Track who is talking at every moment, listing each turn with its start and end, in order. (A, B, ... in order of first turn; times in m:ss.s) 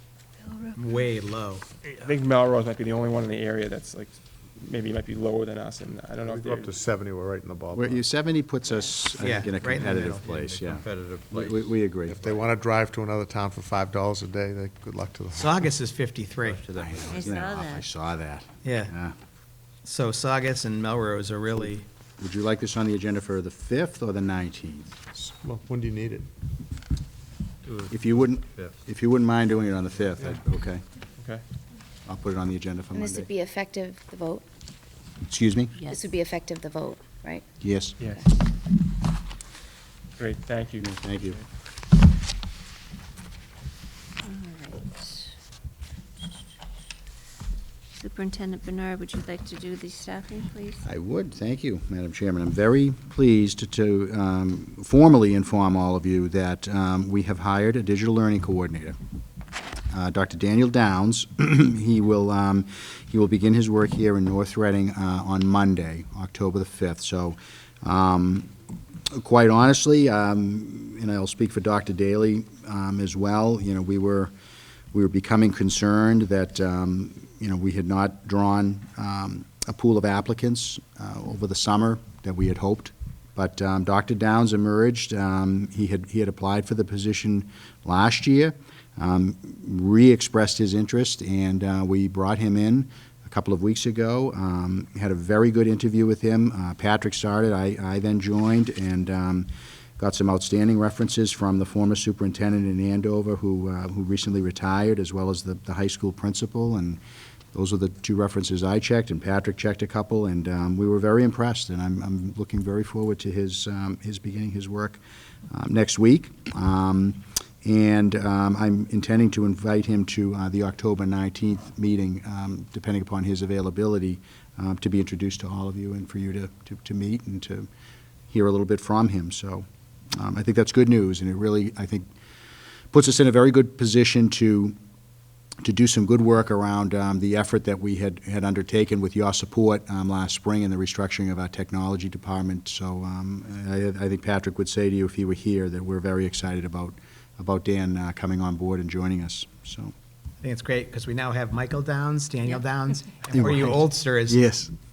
0:00.4-0:01.0 A
0:00.8-0:01.6 B
0:02.0-0:06.7 C
0:06.3-0:08.1 D
0:07.7-0:12.4 E
0:09.2-0:11.5 B
0:12.1-0:15.6 D
0:15.4-0:16.6 B
0:16.5-0:19.2 E
0:17.0-0:17.9 A
0:18.6-0:18.9 B
0:19.8-0:21.8 B
0:22.2-0:25.0 E
0:25.2-0:26.3 D
0:27.9-0:30.8 E
0:31.2-0:31.4 C
0:32.1-0:33.3 E
0:32.9-0:34.4 F
0:35.3-0:35.8 E
0:35.9-0:37.5 F
0:37.6-0:38.0 E
0:40.2-0:41.4 C
0:40.8-0:41.4 E
0:44.2-0:45.3 A
0:48.0-0:50.8 A
0:50.8-0:59.0 E
0:59.9-1:08.5 E
1:09.1-1:14.3 E
1:14.9-1:47.0 E
1:47.5-2:07.7 E
2:08.3-2:12.1 E
2:12.9-2:14.8 E
2:15.6-2:29.9 E
2:30.4-2:34.4 B
2:33.3-2:34.7 E